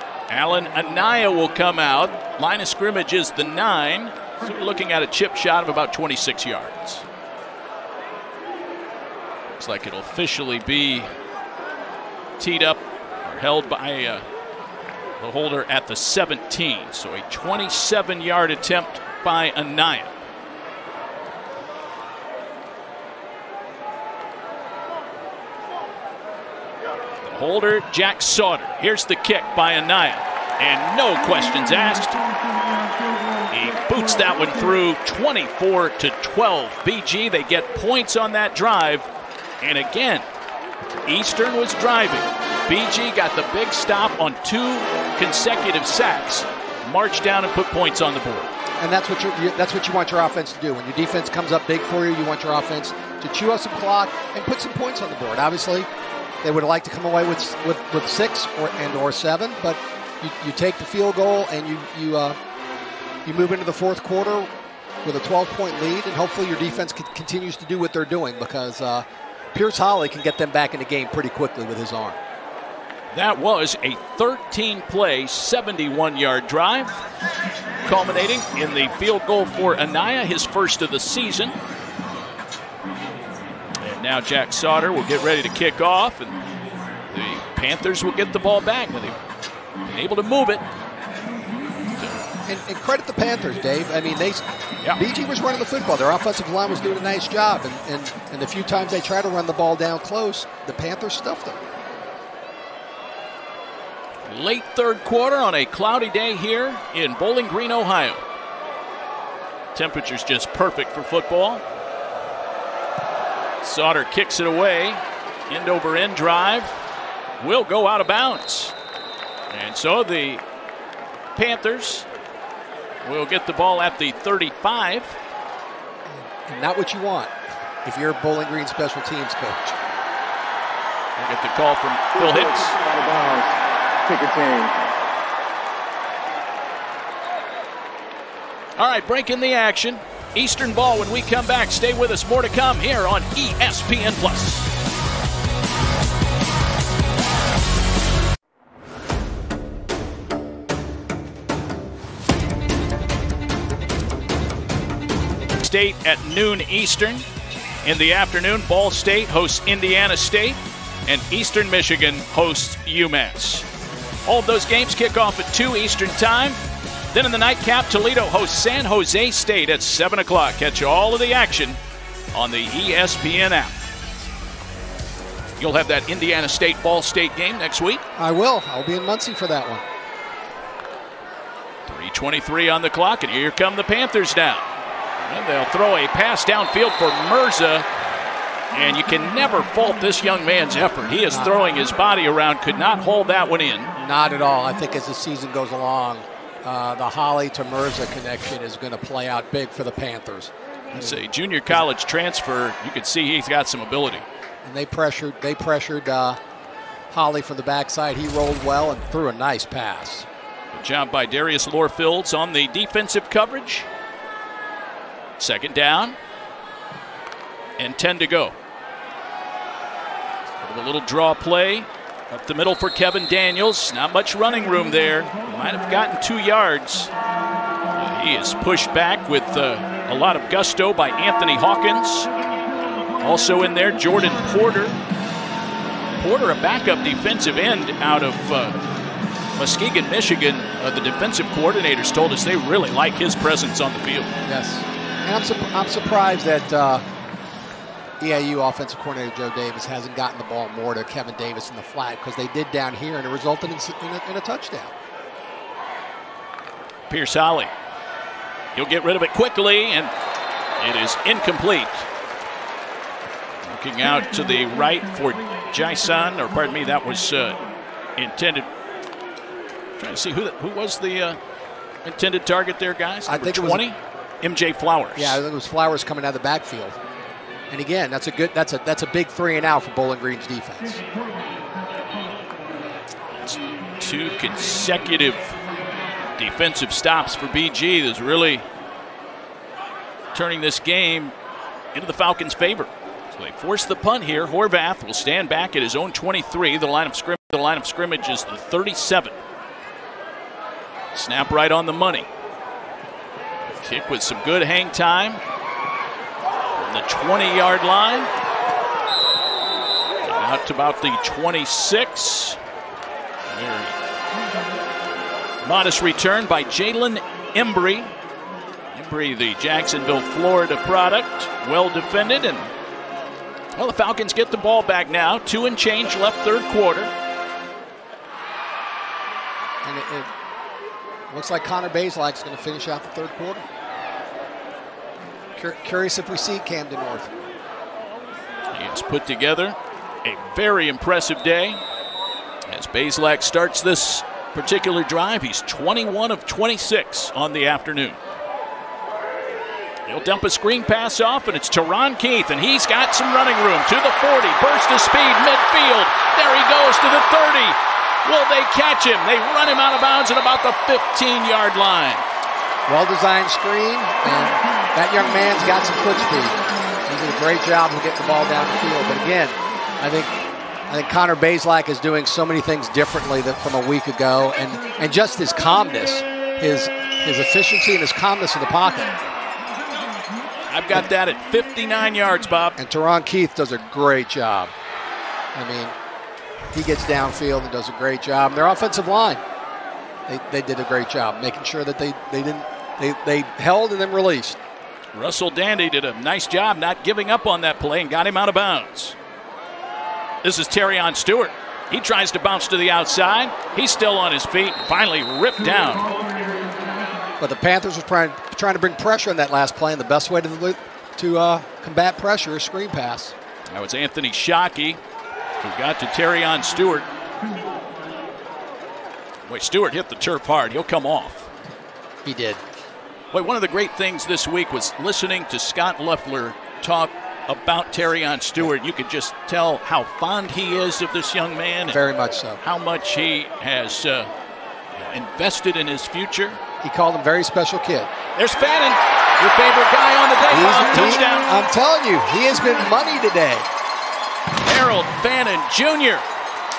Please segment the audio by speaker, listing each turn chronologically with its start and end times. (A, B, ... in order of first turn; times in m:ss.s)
0:00.3-0:07.0 A
0:09.6-0:11.1 A
0:12.4-0:14.2 A
0:15.2-0:20.1 A
0:27.2-0:32.2 A
0:33.5-0:39.1 A
0:39.6-0:40.2 A
0:41.0-0:48.5 A
0:48.8-0:55.9 B
0:56.4-1:02.4 B
1:03.2-1:04.5 B
1:05.0-1:12.2 B
1:13.1-1:17.0 A
1:17.8-1:21.6 A
1:23.8-1:26.4 A
1:27.1-1:29.2 A
1:29.8-1:30.6 A
1:32.0-1:32.2 A
1:32.4-1:34.4 B
1:34.9-1:41.6 B
1:44.3-1:48.2 A
1:49.7-1:51.6 A
1:53.6-1:56.8 A
1:57.4-1:58.7 A
1:59.5-2:00.4 A
2:01.4-2:02.0 A
2:03.0-2:05.2 A
2:06.1-2:07.3 B
2:07.8-2:09.8 B
2:11.2-2:12.8 A
2:12.2-2:14.8 C
2:18.8-2:24.6 A
2:35.6-2:37.2 A
2:37.8-2:43.6 A
2:44.2-2:46.6 A
2:47.1-2:51.8 A
2:52.3-2:53.7 A
2:55.6-2:58.0 A
2:58.2-2:59.8 B
3:01.8-3:04.7 A
3:05.2-3:07.8 A
3:08.7-3:13.9 A
3:14.0-3:21.2 B
3:20.9-3:24.2 A
3:24.6-3:26.4 B
3:27.1-3:30.3 B
3:30.7-3:33.9 A
3:35.4-3:36.2 A
3:37.8-3:38.6 A
3:40.6-3:47.1 A
3:48.0-3:52.3 A
3:53.2-3:55.0 A
3:56.2-3:58.8 A
3:59.6-4:04.3 A
4:04.4-4:07.0 B
4:08.2-4:14.9 B
4:17.1-4:17.7 A
4:18.7-4:20.1 A
4:20.8-4:22.1 A
4:23.6-4:27.6 A
4:28.2-4:28.7 A
4:30.0-4:31.4 A
4:32.0-4:35.4 A
4:33.2-4:33.8 B
4:35.2-4:37.0 B
4:37.7-4:41.0 B
4:43.3-4:45.6 A
4:46.4-4:48.6 A
4:50.3-4:51.3 A
4:51.9-4:59.3 A
5:01.1-5:02.3 A
5:03.6-5:05.4 A
5:06.8-5:08.3 A
5:10.2-5:12.6 A
5:13.5-5:14.0 A
5:15.6-5:18.1 A
5:18.9-5:22.7 A
5:23.8-5:27.1 A
5:29.8-5:30.3 B
5:31.3-5:33.7 B
5:35.6-5:37.3 B
5:38.7-5:41.8 A
5:42.7-5:48.2 A
5:50.1-6:02.2 A
6:02.9-6:10.4 B
6:10.9-6:19.2 B
6:20.7-6:22.8 A
6:22.8-6:24.7 B
6:25.5-6:25.9 B
6:26.7-6:29.4 B
6:30.3-6:34.6 B
6:35.1-6:39.1 A
6:40.4-6:46.1 A
6:47.4-6:53.3 B
6:53.7-6:55.0 A
6:55.6-6:57.1 A
6:59.5-7:01.5 A
7:02.2-7:02.6 B
7:03.3-7:12.0 A
7:11.9-7:12.6 B
7:12.6-7:14.3 A
7:15.0-7:16.6 A
7:16.8-7:18.1 B
7:18.4-7:21.5 A
7:20.5-7:23.6 B
7:24.6-7:26.2 A